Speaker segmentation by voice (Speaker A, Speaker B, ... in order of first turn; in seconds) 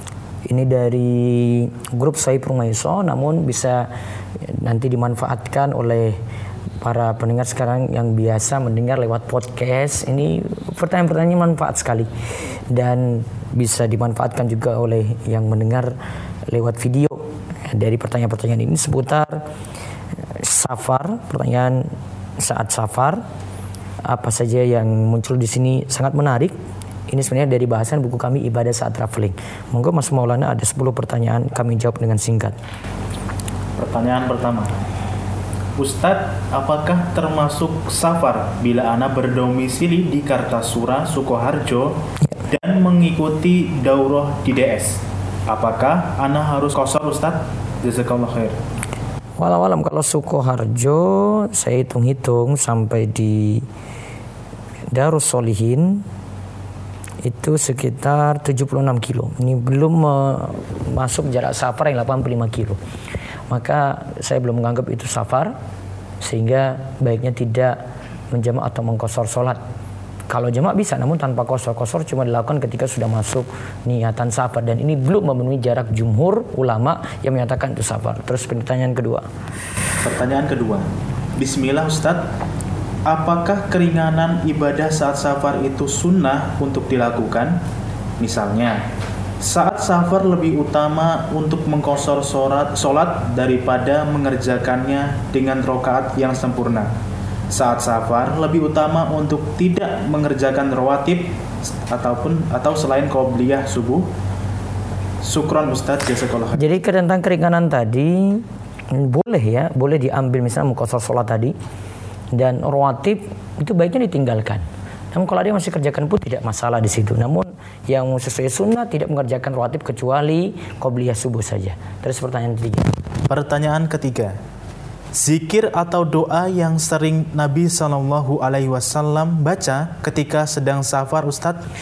Speaker A: 0.5-3.9, 4.4-6.2, 6.8-12.1, 12.7-15.9, 16.5-19.4, 20.3-23.2, 24.1-26.5, 27.1-32.5, 49.4-53.6, 54.9-56.0, 57.2-62.8, 63.5-65.5, 66.2-67.8, 68.3-69.6, 70.3-79.2, 106.5-111.5, 112.3-122.9
Speaker B: 33.8-34.7, 35.8-42.0, 42.5-48.6, 80.0-80.8, 81.4-82.2, 83.0-87.6, 88.2-88.8, 89.4-96.9, 97.5-101.3, 101.9-104.1, 105.2-106.6, 123.3-124.3, 125.2-131.6